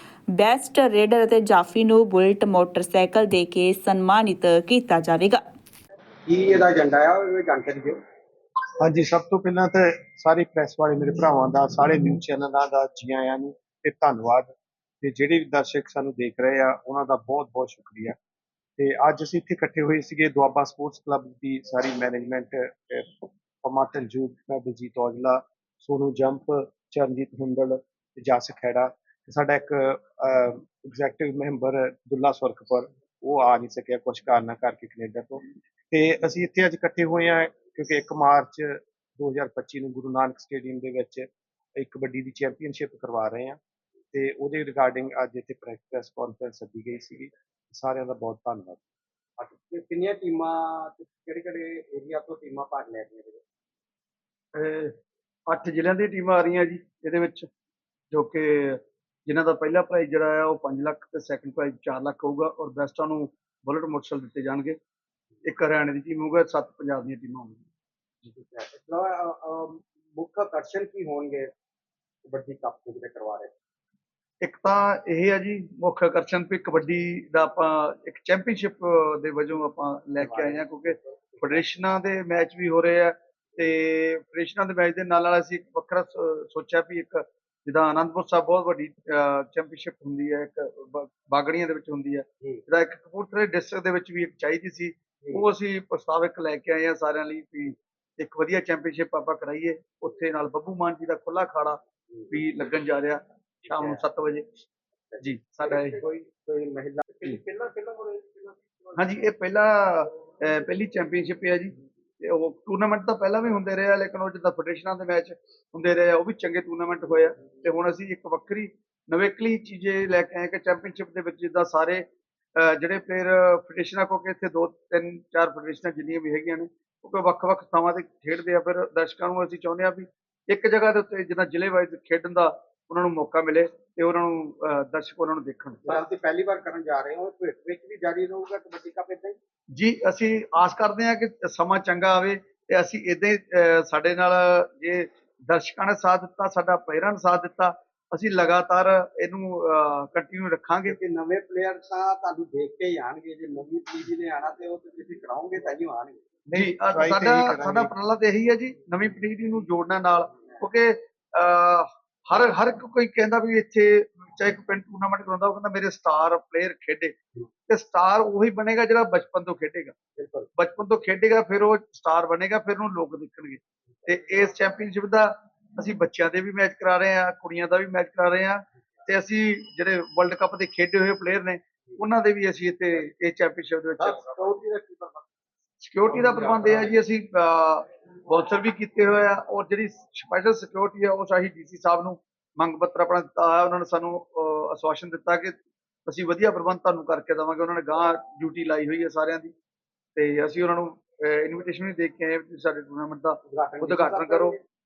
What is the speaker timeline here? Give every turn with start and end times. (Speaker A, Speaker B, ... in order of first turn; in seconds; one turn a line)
Speaker A: 0.3-5.4
Speaker B: 6.3-8.0
Speaker C: 8.8-14.5
Speaker C: 15.0-18.2
Speaker C: 18.8-43.6
Speaker C: 44.1-48.8
Speaker B: 49.4-53.4
Speaker D: 54.5-54.9
Speaker D: 55.5-57.5
Speaker D: 58.1-64.8
Speaker D: 65.5-67.6
Speaker B: 68.2-71.5
Speaker B: 72.2-73.5
Speaker D: 74.4-104.5
Speaker B: 80.2-81.7
Speaker B: 103.7-104.0
Speaker B: 105.1-107.4
Speaker D: 105.2-106.0
Speaker D: 107.8-122.1
Speaker D: 122.6-135.9
Speaker B: 135.8-139.4
Speaker D: 139.7-151.0
Speaker B: 150.9-156.2
Speaker C: 156.5-157.9
Speaker D: 156.5-167.2
Speaker D: 167.7-169.9
Speaker B: 170.2-170.5
Speaker D: 170.6-184.4
Speaker B: 184.0-185.3
Speaker D: 185.8-199.5
Speaker B: 186.1-186.9
Speaker D: 200.2-204.6
Speaker B: 203.5-204.6